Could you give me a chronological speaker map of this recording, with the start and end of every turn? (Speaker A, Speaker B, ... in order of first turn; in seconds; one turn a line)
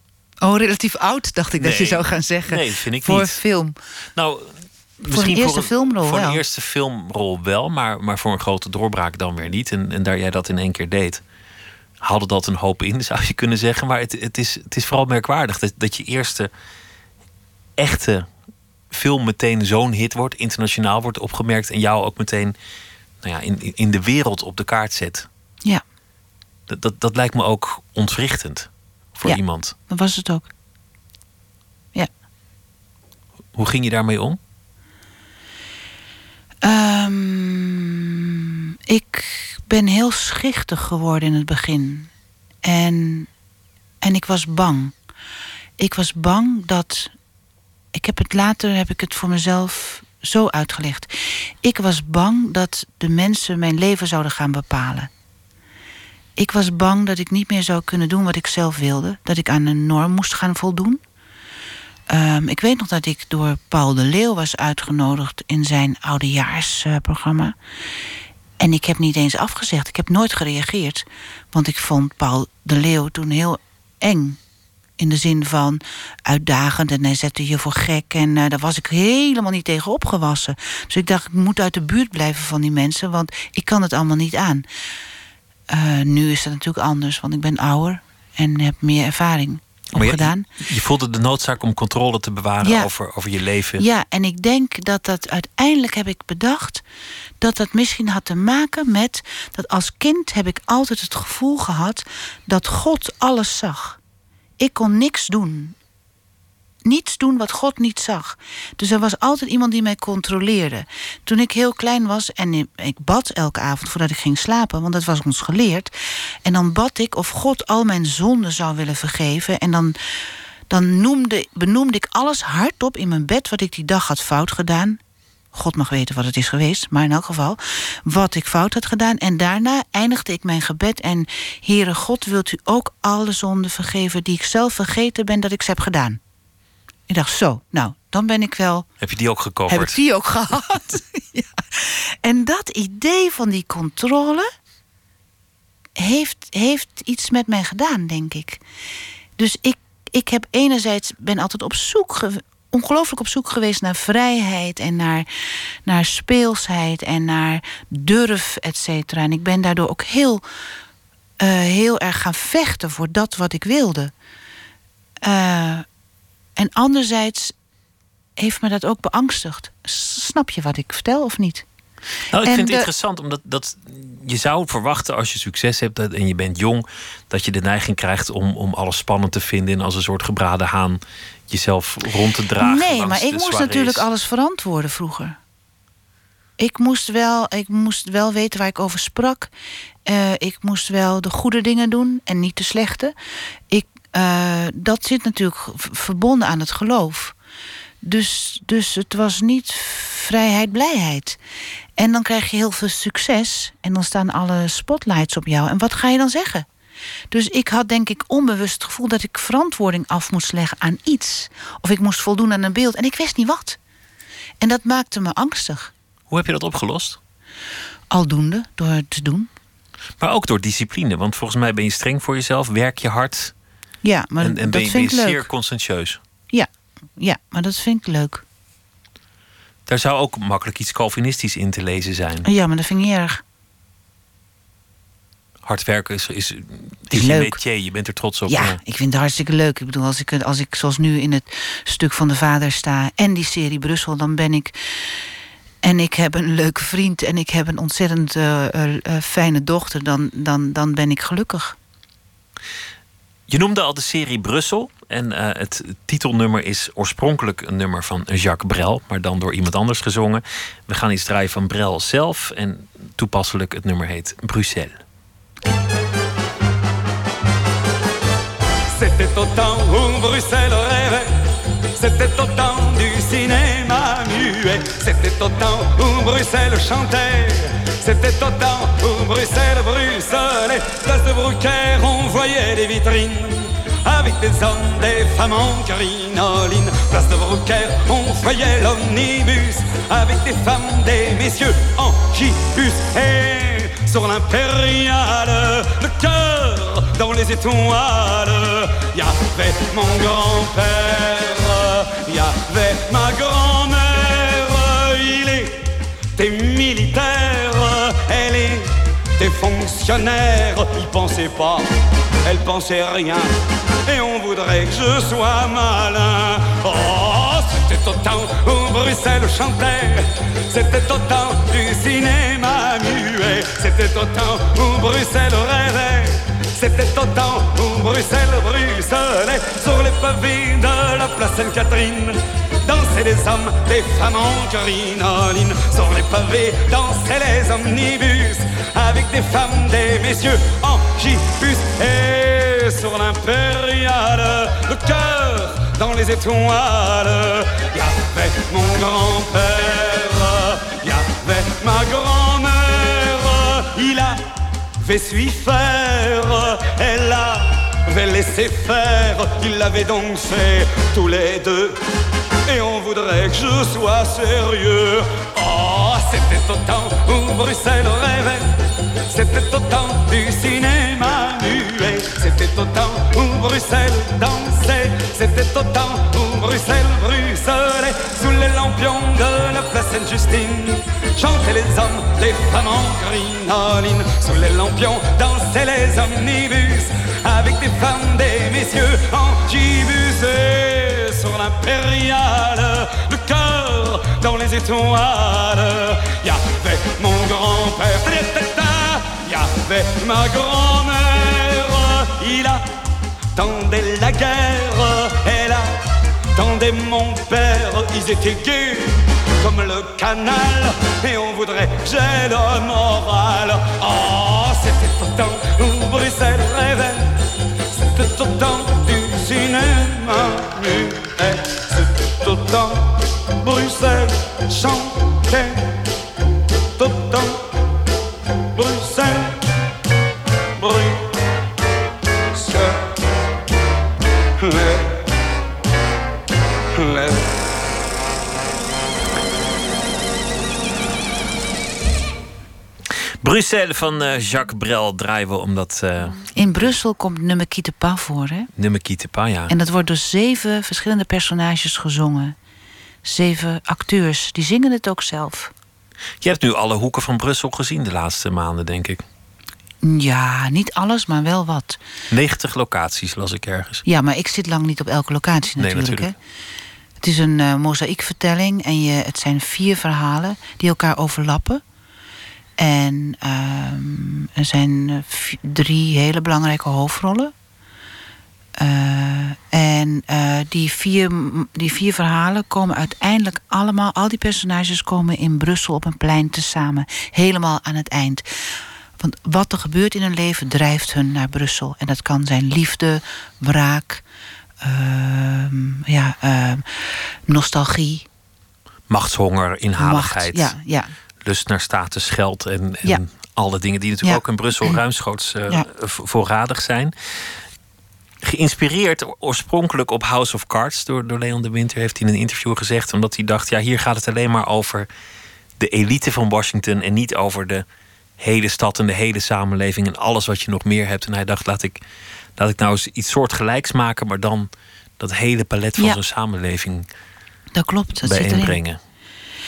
Speaker A: 0.4-3.8
Speaker B: 1.6-3.4
Speaker B: 4.2-11.2
Speaker A: 5.1-6.4
Speaker B: 12.0-16.5
Speaker B: 17.8-18.3
Speaker B: 18.9-22.5
Speaker B: 23.2-25.3
Speaker B: 26.7-29.7
Speaker A: 29.2-30.5
Speaker B: 33.5-34.4
Speaker A: 36.6-42.1
Speaker A: 42.6-43.3
Speaker A: 44.0-44.9
Speaker A: 45.8-47.1
Speaker A: 47.9-55.1
Speaker A: 56.4-61.0
Speaker A: 62.1-67.5
Speaker A: 68.6-74.4
Speaker A: 75.0-84.7
Speaker A: 85.7-90.5
Speaker B: 89.9-93.8
Speaker A: 92.6-92.9
Speaker A: 93.8-96.8
Speaker A: 97.4-104.0
Speaker A: 104.6-105.7
Speaker A: 106.8-115.9
Speaker A: 116.4-120.0
Speaker A: 120.7-125.0
Speaker A: 125.5-136.2
Speaker A: 137.1-138.9
Speaker B: 139.0-140.0
Speaker A: 139.7-144.5
Speaker A: 146.0-148.6
Speaker A: 149.4-155.3
Speaker A: 155.8-160.4
Speaker A: 161.4-164.1
Speaker A: 165.2-165.8
Speaker A: 166.6-167.5
Speaker A: 168.4-171.6
Speaker B: 172.3-184.1
Speaker A: 172.4-172.9
Speaker A: 182.6-185.4
Speaker A: 186.6-189.5
Speaker A: 190.1-193.1
Speaker A: 193.7-197.3
Speaker A: 198.0-201.4
Speaker A: 202.0-206.7
Speaker A: 207.3-213.8
Speaker A: 214.6-215.9
Speaker B: 216.3-217.2
Speaker A: 218.1-219.5
Speaker B: 220.2-223.5
Speaker A: 224.0-225.4
Speaker B: 224.4-226.2
Speaker A: 226.5-228.4
Speaker B: 229.9-232.5
Speaker A: 232.4-233.4
Speaker B: 235.6-238.8
Speaker A: 237.1-237.6
Speaker A: 238.5-245.1
Speaker A: 245.8-251.8
Speaker B: 253.5-265.0
Speaker C: 268.9-271.3
Speaker C: 271.9-305.7
Speaker C: 306.4-311.9
Speaker C: 312.4-313.5
Speaker C: 314.1-354.4
Speaker C: 355.0-362.0
Speaker C: 362.6-368.7
Speaker C: 369.3-402.9
Speaker C: 403.5-405.9
Speaker C: 406.5-417.3
Speaker C: 417.9-425.8
Speaker C: 427.0-427.6
Speaker C: 428.7-429.5
Speaker C: 430.8-431.3
Speaker C: 432.5-433.1
Speaker C: 434.6-435.1
Speaker C: 436.9-437.4
Speaker B: 443.4-446.9
Speaker A: 446.5-448.7
Speaker B: 448.8-449.7
Speaker A: 449.7-452.5
Speaker A: 453.2-455.7
Speaker B: 456.4-459.2
Speaker A: 460.0-462.0
Speaker B: 462.3-464.0
Speaker A: 464.0-466.4
Speaker B: 465.8-466.3
Speaker A: 467.2-471.8
Speaker A: 472.8-477.5
Speaker A: 478.8-494.2
Speaker A: 494.8-498.2
Speaker B: 499.1-500.7
Speaker A: 500.0-501.1
Speaker B: 501.4-507.1
Speaker A: 504.2-505.0
Speaker B: 508.4-515.1
Speaker B: 515.8-517.8
Speaker B: 518.4-522.0
Speaker B: 522.6-527.1
Speaker A: 527.7-528.8
Speaker B: 528.2-529.0